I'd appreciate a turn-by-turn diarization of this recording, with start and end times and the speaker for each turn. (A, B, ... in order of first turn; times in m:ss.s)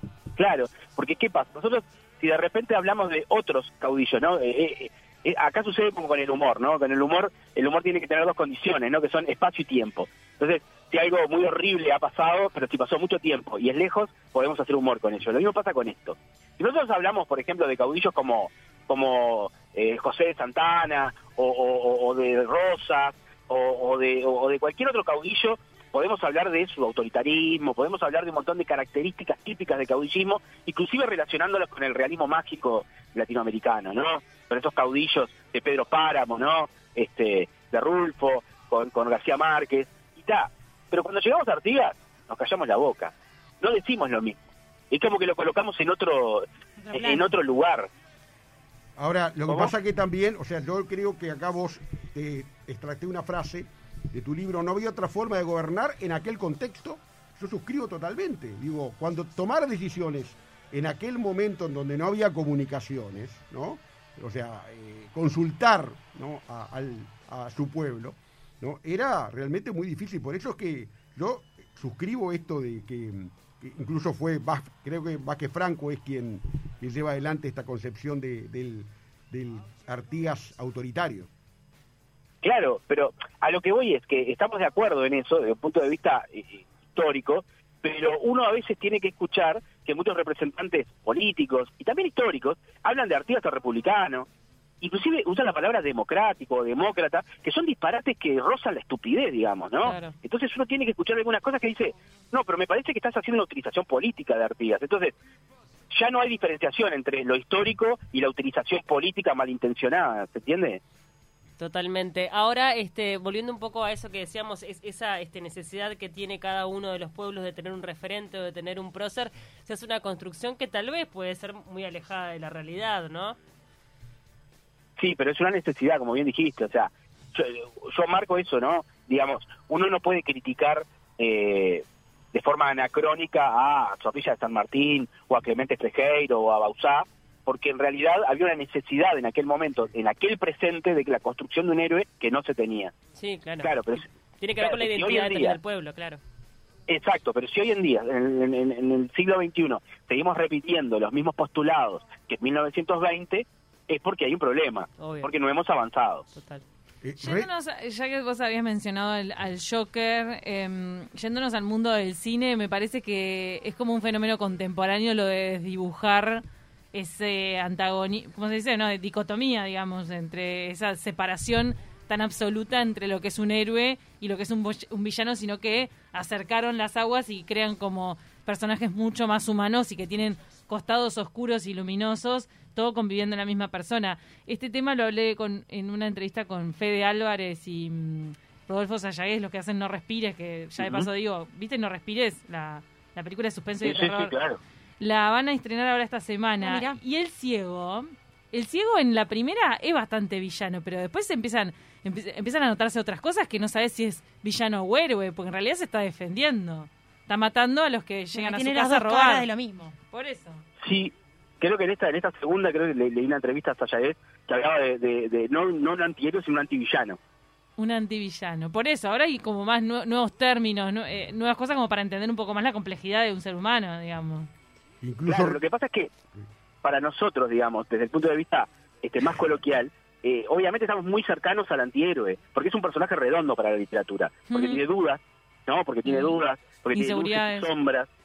0:00.4-0:47.9 A
0:46.8-0:47.3 B
0:49.0-1:21.3 C
0:49.5-0:49.7 A
1:22.4-1:34.3 A
1:34.8-1:45.1 A
1:39.8-1:40.1 D
1:45.9-1:50.8 A
1:51.6-2:03.4 D
2:05.0-2:22.9 A
2:23.2-2:23.8 D
2:23.6-2:24.1 A
2:24.4-2:26.2 D
2:24.6-2:25.6 A
2:26.9-2:36.2 A
2:35.0-2:35.3 D
2:36.3-2:36.6 D
2:37.0-2:37.5 C
2:37.2-3:14.3 E
3:10.8-3:11.1 A
3:13.8-3:14.6 A
3:15.0-3:29.5 E
3:16.6-3:17.0 B
3:28.3-3:29.9 B
3:30.0-3:30.6 E
3:30.8-3:37.2 A
3:37.8-3:44.5 E
3:45.0-3:45.6 C
3:45.2-3:46.1 A
3:46.8-3:58.1 A
3:54.5-3:54.8 E
3:56.0-3:56.4 E
3:56.9-3:57.7 E